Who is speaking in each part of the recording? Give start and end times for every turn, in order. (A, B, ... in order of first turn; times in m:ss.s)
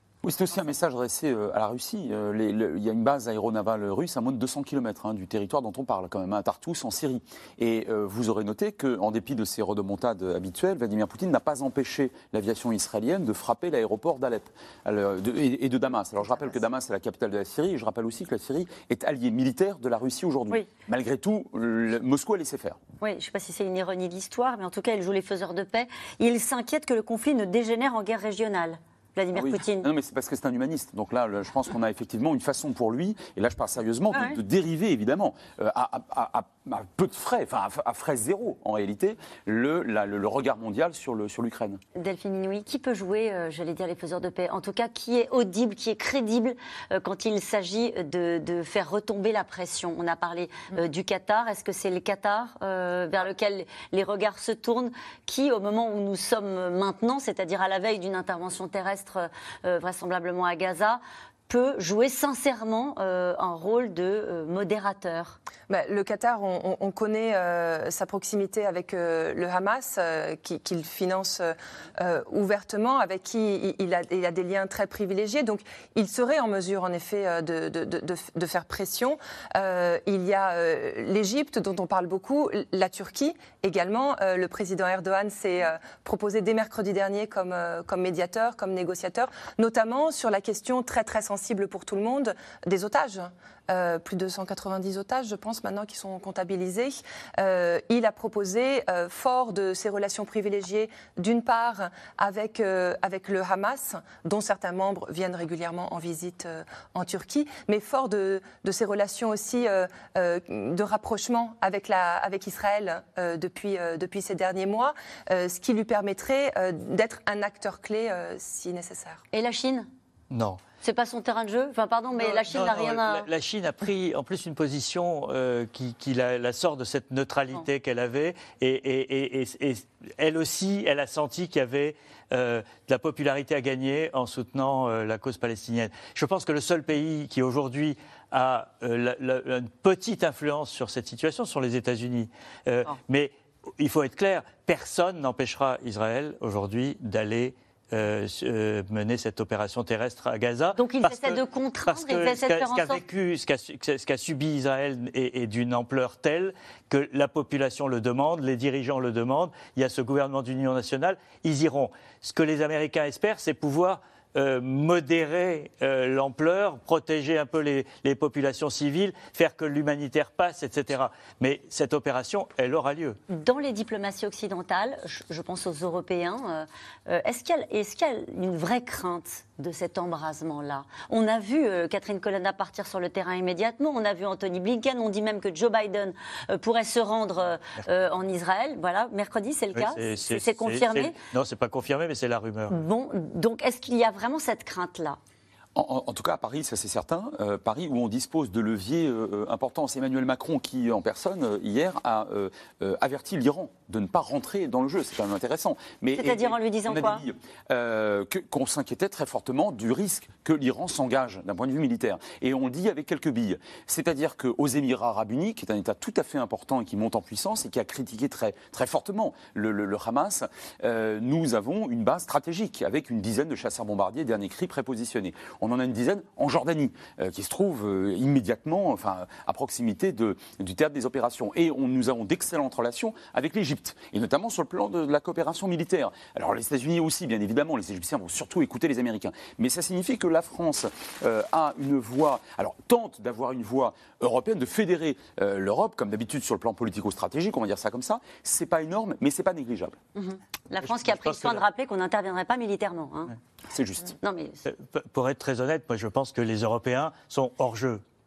0:00.2-0:22.8 A
0:23.0-0:29.9 B
0:29.4-0:41.8 A
0:34.1-0:34.4 B
0:42.0-1:05.4 B
1:05.7-1:59.2 C
1:59.3-1:59.9 B
2:00.3-2:00.6 D
2:00.8-2:03.3 B
2:02.2-2:53.2 D
2:30.8-2:33.0 B
2:53.3-3:11.2 B
3:09.8-3:12.8 D
3:12.7-3:15.2 B
3:15.8-4:10.0 A
3:26.2-3:27.2 B
4:10.2-4:13.3 B
4:10.8-4:11.6 D
4:13.7-4:14.2 A
4:14.2-4:14.6 B
4:14.7-4:18.0 D